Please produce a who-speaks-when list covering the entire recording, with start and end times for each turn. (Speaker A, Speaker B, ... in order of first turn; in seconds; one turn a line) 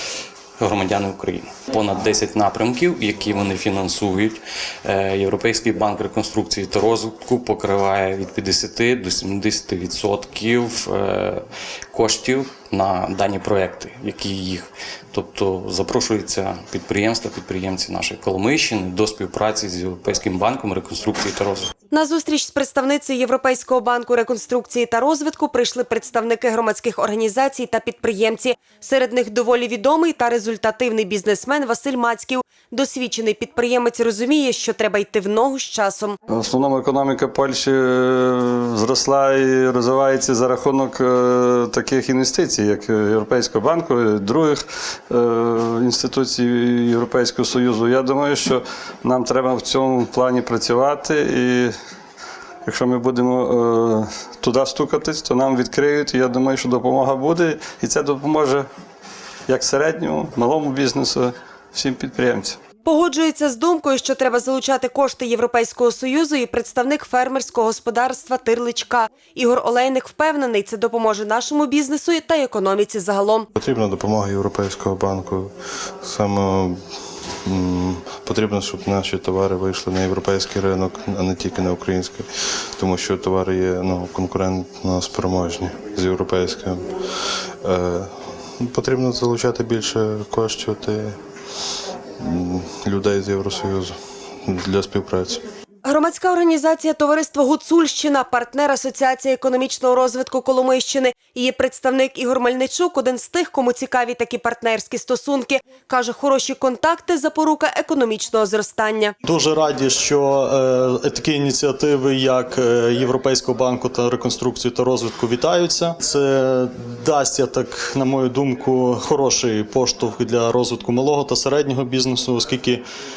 Speaker A: 0.6-21.7
Speaker B: 21.9-36.2
Speaker C: 36.3-51.7
Speaker C: 52.6-58.7
Speaker C: 59.5-62.6
Speaker B: 62.8-73.5
Speaker D: 73.5-76.8
Speaker D: 77.4-87.0
Speaker D: 87.6-91.2
Speaker D: 92.2-95.4
Speaker B: 95.8-109.1
Speaker E: 109.2-122.8